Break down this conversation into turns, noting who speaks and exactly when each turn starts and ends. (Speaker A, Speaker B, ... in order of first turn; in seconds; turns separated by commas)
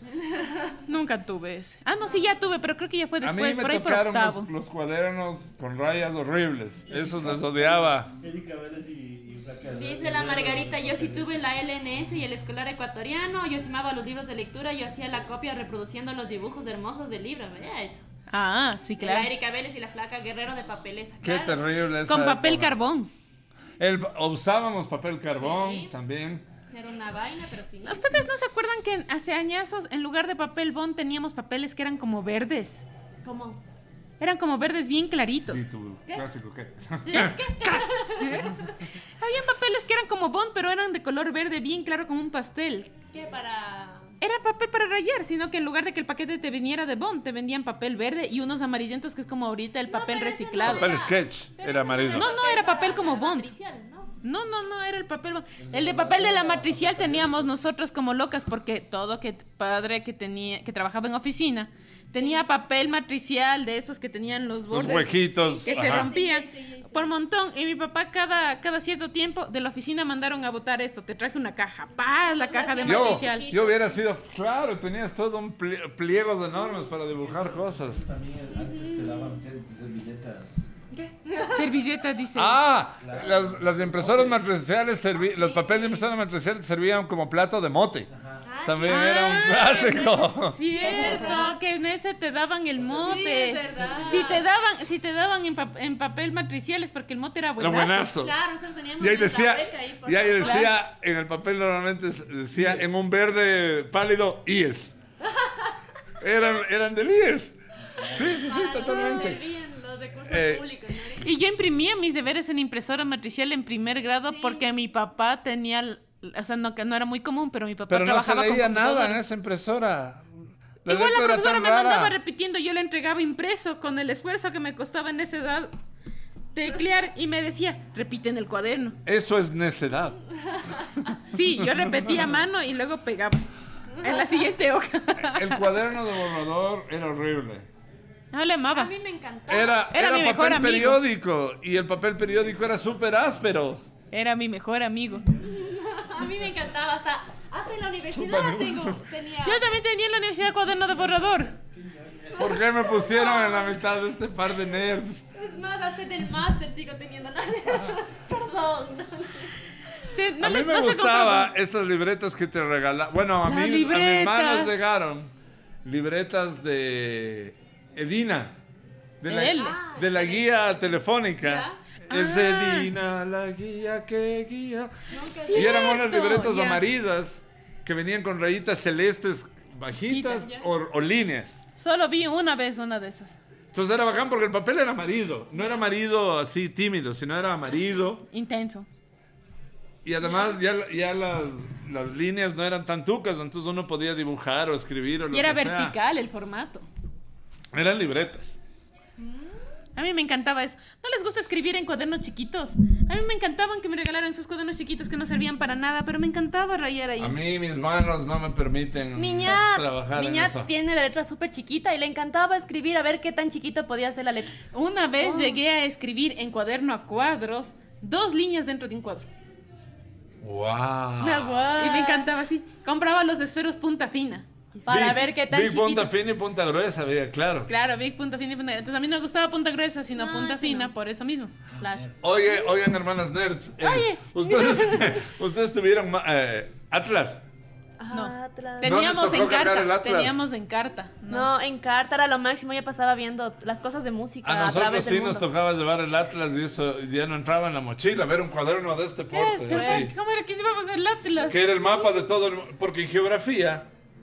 Speaker A: 0.1-0.8, Speaker B: 0.9-4.5, Speaker C: 3.2-8.1, Speaker D: 6.9-11.4, Speaker A: 9.7-18.0, Speaker B: 18.3-19.3, Speaker A: 19.0-21.6, Speaker C: 21.2-22.8, Speaker B: 22.1-23.1, Speaker C: 23.8-26.4, Speaker A: 25.3-25.9, Speaker A: 26.7-28.2, Speaker B: 27.9-32.8, Speaker A: 33.2-33.6, Speaker B: 34.2-36.2, Speaker C: 35.5-37.8, Speaker A: 37.1-38.5, Speaker B: 37.1-42.9, Speaker A: 43.1-44.1, Speaker B: 44.2-50.9, Speaker A: 49.9-54.1, Speaker C: 50.6-52.3, Speaker B: 52.1-53.5, Speaker B: 54.2-73.5, Speaker D: 55.6-57.6, Speaker A: 62.2-62.4, Speaker C: 64.7-66.1, Speaker A: 65.4-67.1, Speaker A: 72.3-74.0, Speaker C: 72.8-78.0, Speaker D: 77.1-80.6, Speaker A: 78.5-79.2, Speaker A: 80.9-81.7, Speaker B: 81.5-82.6, Speaker C: 82.3-88.1, Speaker D: 83.0-84.5, Speaker A: 85.1-86.0, Speaker D: 88.1-88.5, Speaker A: 88.4-89.9, Speaker C: 88.6-90.6, Speaker B: 88.9-98.1, Speaker A: 90.7-91.6, Speaker D: 92.8-94.4, Speaker A: 93.0-94.4, Speaker C: 97.6-98.3, Speaker A: 98.1-100.7, Speaker C: 99.0-105.0, Speaker B: 100.4-100.7, Speaker D: 102.5-102.8, Speaker A: 105.3-105.7, Speaker C: 106.2-109.4, Speaker D: 108.0-108.4, Speaker A: 108.1-111.3, Speaker C: 110.3-110.6, Speaker B: 111.2-119.2, Speaker A: 114.2-114.7, Speaker C: 117.9-122.1, Speaker B: 120.9-125.7, Speaker B: 126.5-129.0, Speaker C: 129.0-130.2, Speaker B: 131.3-133.4, Speaker C: 131.6-132.2, Speaker A: 133.9-134.5, Speaker B: 134.0-135.7, Speaker C: 135.2-137.7, Speaker B: 138.3-138.9, Speaker A: 138.7-139.8, Speaker C: 139.5-143.8, Speaker B: 139.9-141.0, Speaker B: 144.1-145.3, Speaker D: 145.1-146.5, Speaker A: 145.4-149.7, Speaker C: 148.1-149.0, Speaker B: 149.4-151.5, Speaker D: 150.7-152.6, Speaker C: 152.4-155.2, Speaker A: 152.4-153.8, Speaker A: 155.3-159.5, Speaker B: 160.1-161.5, Speaker C: 160.4-165.3, Speaker B: 163.4-164.9, Speaker C: 165.8-168.6, Speaker C: 169.2-174.9, Speaker B: 169.3-169.8, Speaker A: 169.5-170.8, Speaker A: 171.4-171.8, Speaker B: 172.1-172.9, Speaker A: 175.1-176.1, Speaker B: 175.4-176.8, Speaker C: 175.5-181.6, Speaker B: 180.1-180.4, Speaker A: 180.4-180.6, Speaker B: 181.8-183.4, Speaker C: 183.7-188.2, Speaker B: 188.3-188.9, Speaker C: 190.0-195.9, Speaker A: 190.2-190.6, Speaker B: 195.3-196.9, Speaker C: 197.7-198.6, Speaker A: 199.2-199.5, Speaker B: 199.9-207.4, Speaker C: 207.2-210.7, Speaker A: 209.2-214.6, Speaker B: 214.7-219.3, Speaker A: 215.2-215.6, Speaker C: 220.4-221.7, Speaker A: 221.2-222.3, Speaker B: 221.8-225.1, Speaker A: 224.8-226.1, Speaker C: 224.9-227.7, Speaker B: 227.7-231.5, Speaker A: 230.1-230.9, Speaker D: 231.7-232.3, Speaker A: 231.8-232.1, Speaker C: 232.2-237.4, Speaker B: 233.8-235.1, Speaker A: 238.0-239.1, Speaker B: 238.1-241.5, Speaker C: 238.8-240.4, Speaker A: 241.3-245.4, Speaker C: 244.4-250.1, Speaker B: 249.3-251.6, Speaker A: 249.7-250.1, Speaker C: 251.5-253.9